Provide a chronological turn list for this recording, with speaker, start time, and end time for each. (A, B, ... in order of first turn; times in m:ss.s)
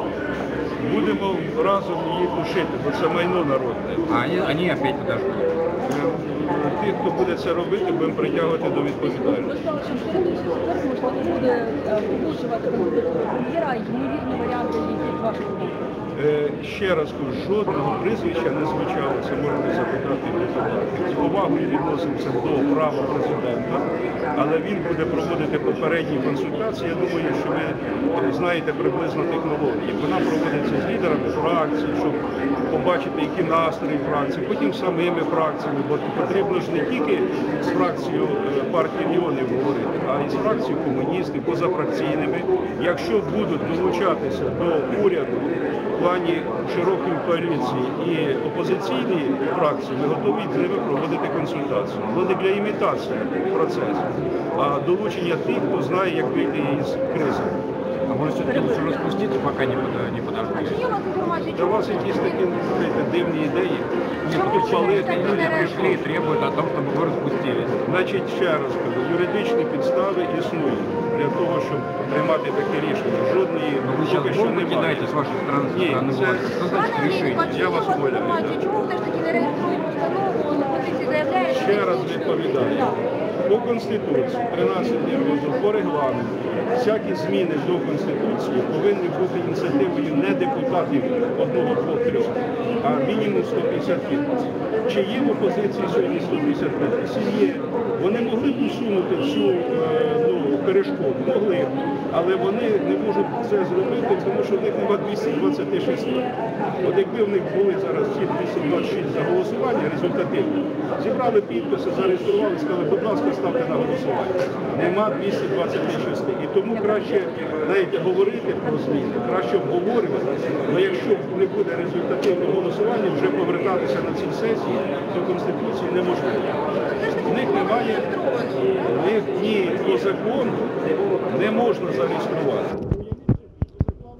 0:00.8-0:04.1 A
0:04.1-0:05.5 B
0:05.8-0:09.6 A
0:09.3-0:15.7 C
0:16.1-0:57.6 A
0:58.1-1:01.0 B
1:00.8-1:02.2 C
1:01.5-1:06.0 A
1:04.2-1:07.9 B
1:04.3-1:06.0 C
1:07.8-1:18.6 A
1:13.8-1:17.8 B
1:17.5-1:21.7 C
1:21.4-1:46.3 A
1:46.8-2:06.5 A
2:07.1-2:10.7 A
2:07.9-2:08.6 C
2:11.3-2:12.9 A